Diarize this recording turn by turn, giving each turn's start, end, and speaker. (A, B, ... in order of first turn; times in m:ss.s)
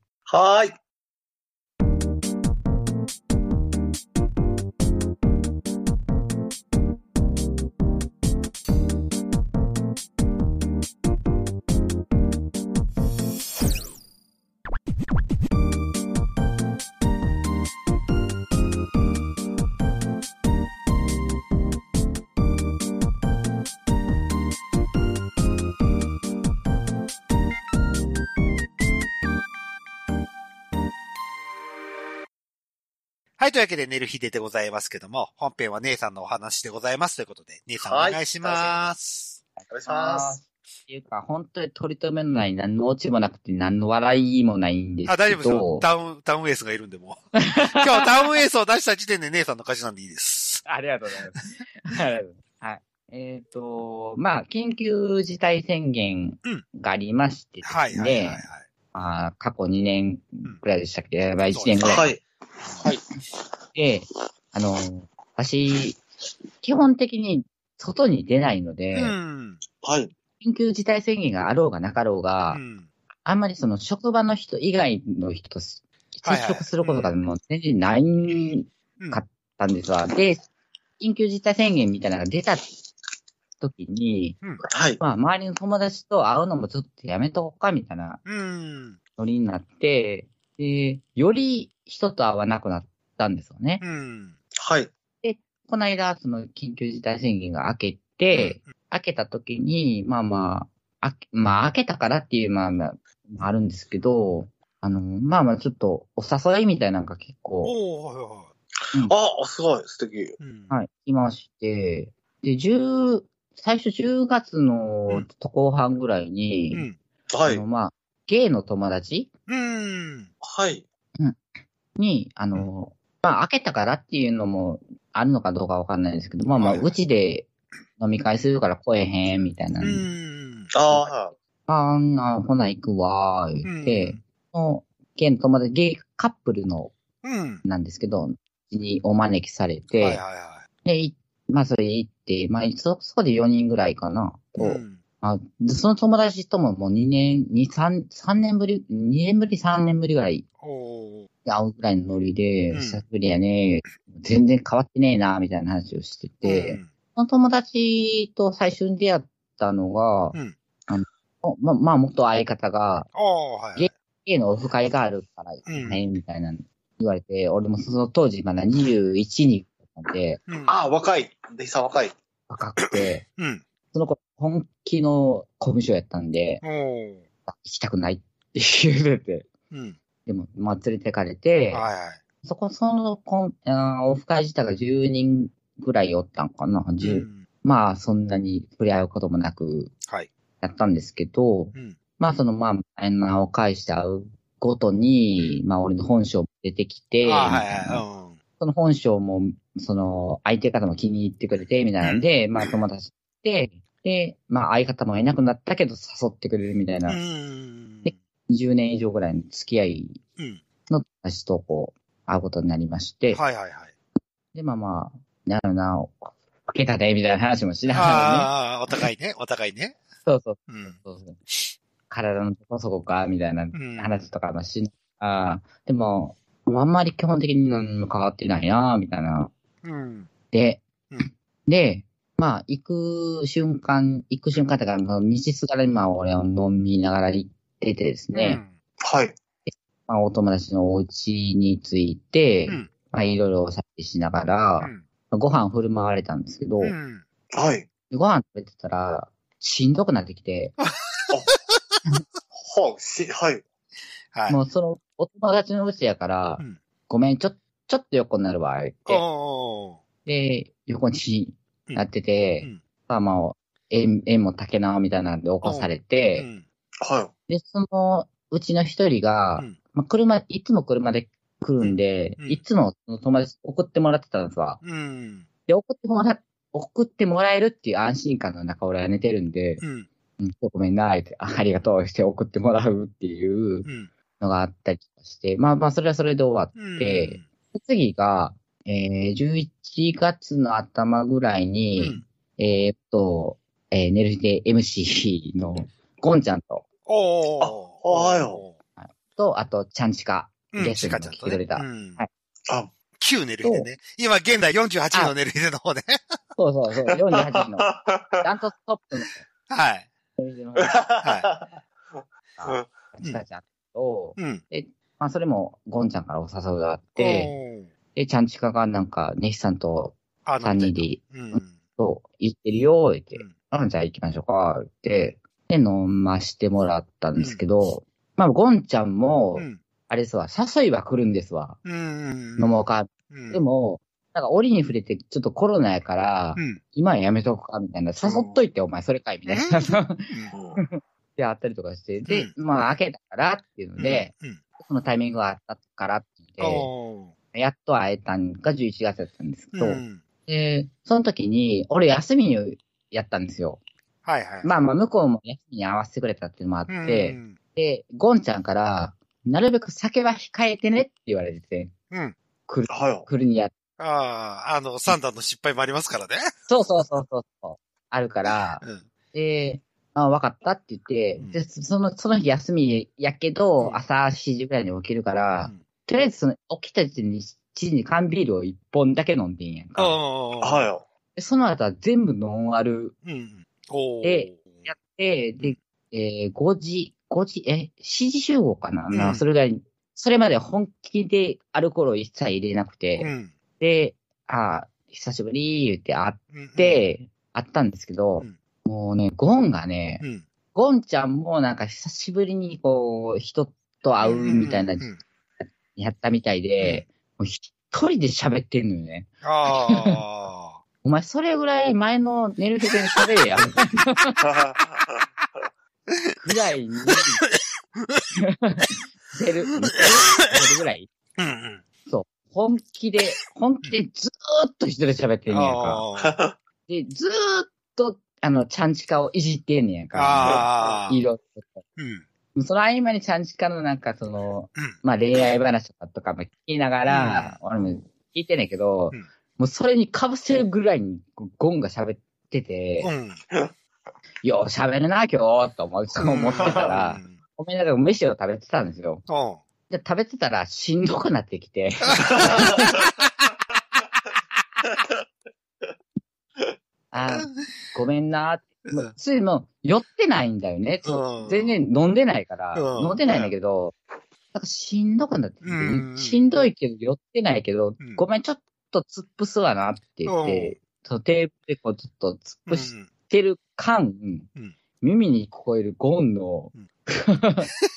0:00.3-0:00.8 A
0:33.4-0:39.4 B
0:37.8-0:38.9 A
0:39.7-0:45.8 C
0:39.7-0:40.4 A
0:45.1-0:50.6 B
0:47.5-0:48.1 C
0:50.6-1:02.1 C
0:57.6-0:58.6 B
1:01.5-1:02.1 B
1:01.8-1:02.2 A
1:03.8-1:06.0 C
1:06.6-1:09.2 C
1:08.9-1:09.6 B
1:09.8-1:10.1 A
1:10.4-1:12.6 C
1:12.5-1:12.9 B
1:13.2-1:20.5 C
1:16.2-1:17.2 B
1:21.0-1:22.7 C
1:23.6-1:24.4 C
1:24.7-1:25.0 A
1:25.0-1:28.2 C
1:28.3-1:29.0 B
1:29.2-1:33.8 C
1:33.8-1:34.4 B
1:34.6-1:34.9 A
1:35.2-1:47.8 C
1:38.4-1:38.7 B
1:47.6-1:48.5 B
1:48.8-1:50.4 A
1:50.4-1:50.7 B
1:50.7-1:56.8 C
1:56.7-1:57.0 B
1:57.3-1:57.6 A
1:57.5-1:59.3 C
1:59.5-2:00.3 B
2:00.4-2:00.8 A
2:02.0-2:10.1 C
2:06.5-2:06.9 B
2:09.8-2:10.7 B
2:10.7-2:11.3 A
2:10.9-2:16.9 C
2:13.6-2:14.2 B
2:17.2-2:17.6 B
2:17.6-2:20.2 C
2:20.0-2:20.6 B
2:20.8-2:30.5 C
2:24.6-2:25.0 B
2:30.6-2:31.3 B
2:31.4-2:40.4 C
2:32.7-2:33.0 B
2:36.4-2:36.9 B
2:40.9-2:43.1 C
2:43.2-2:43.9 B
2:43.8-2:50.4 C
2:45.7-2:46.0 B
2:50.5-2:50.8 B
2:50.6-2:52.1 A
2:52.5-2:53.2 C
2:52.8-2:53.6 B
2:53.9-2:56.6 C
2:56.6-2:57.2 B
2:57.5-2:59.5 C
2:59.7-3:00.0 B
3:00.3-3:01.9 C
3:01.7-3:02.2 B
3:02.4-3:09.9 C
3:07.0-3:07.4 B
3:10.6-3:18.0 C
3:17.2-3:18.4 B
3:18.6-3:27.2 C
3:22.0-3:22.3 B
3:27.1-3:28.2 B
3:28.1-3:30.2 C
3:30.9-3:33.4 C
3:33.3-3:33.9 B
3:34.5-3:38.9 C
3:37.9-3:40.0 B
3:40.2-3:41.4 C
3:40.7-3:41.0 B
3:42.1-3:49.5 C
3:43.7-3:44.2 B
3:49.8-3:50.3 B
3:50.5-3:50.8 C
3:51.7-3:58.6 C
3:58.3-3:58.7 B
3:59.0-3:59.4 A
4:00.1-4:07.0 C
4:06.8-4:07.2 B
4:07.5-4:07.9 A
4:08.1-4:10.8 C
4:10.8-4:11.9 B
4:12.5-4:13.6 A
4:14.3-4:14.6 B
4:14.5-4:19.2 C
4:19.1-4:20.0 B
4:20.3-4:26.5 C
4:25.6-4:26.6 B
4:27.0-4:27.3 A
4:27.5-4:34.8 C
4:31.8-4:32.6 B
4:34.8-4:35.5 B
4:35.7-4:39.8 C
4:39.8-4:40.1 B
4:40.4-4:43.9 C
4:43.8-4:44.1 B
4:44.4-4:56.8 C
4:46.8-4:47.4 B
4:52.0-4:52.3 B
4:57.1-4:58.8 B
4:57.6-4:58.6 A
4:59.0-5:02.3 C
5:00.7-5:02.2 B
5:03.2-5:06.4 B
5:06.6-5:09.4 C
5:07.3-5:08.4 A
5:09.7-5:10.1 B
5:10.4-5:11.0 C
5:10.8-5:11.7 A
5:11.2-5:11.5 B
5:12.6-5:17.5 C
5:14.4-5:14.6 B
5:17.2-5:17.9 B
5:18.2-5:31.8 C
5:20.4-5:21.8 B
5:31.8-5:33.6 B
5:32.6-5:46.9 C
5:38.2-5:38.6 A
5:39.5-5:40.5 B
5:40.5-5:40.8 A
5:42.3-5:42.5 B
5:44.0-5:44.6 B
5:46.6-5:47.3 B
5:47.5-5:53.8 C
5:49.7-5:50.2 B
5:54.2-5:54.7 B
5:54.6-6:01.9 C
5:56.9-5:57.6 B
6:02.1-6:02.4 B
6:02.7-6:03.8 C
6:02.9-6:03.3 A
6:04.0-6:06.5 B
6:06.7-6:20.2 C
6:20.0-6:20.8 B
6:20.6-6:21.0 A
6:21.4-6:23.2 C
6:23.2-6:24.9 B
6:24.2-6:40.2 C
6:29.1-6:29.4 B
6:33.2-6:33.5 B
6:36.5-6:37.0 B
6:40.7-6:45.1 C
6:44.2-6:45.2 B
6:45.9-6:50.2 C
6:46.8-6:47.0 B
6:49.4-6:50.8 B
6:51.0-6:54.4 C
6:54.4-6:55.2 A
6:56.1-6:56.4 B
6:56.4-6:57.4 C
6:57.1-6:58.2 B
6:58.4-7:01.1 C
7:00.0-7:00.6 B
7:01.4-7:01.8 B
7:02.1-7:06.0 C
7:05.5-7:06.4 B
7:06.2-7:06.6 A
7:06.9-7:11.8 C
7:10.1-7:11.2 B
7:10.4-7:11.0 A
7:12.0-7:12.2 B
7:12.6-7:23.1 C
7:17.1-7:17.6 B
7:23.0-7:23.4 B
7:24.4-7:29.3 C
7:26.2-7:27.4 B
7:26.6-7:26.9 A
7:29.3-7:29.6 B
7:29.9-7:33.0 C
7:32.1-7:33.3 B
7:32.3-7:32.9 A
7:37.1-7:44.0 C
7:37.3-7:37.6 B
7:38.9-7:39.1 B
7:41.0-7:41.8 B
7:42.7-7:43.5 B
7:44.5-7:54.5 C
7:45.6-7:46.5 B
7:50.3-7:50.8 B
7:52.7-7:53.1 B
7:55.0-7:57.7 C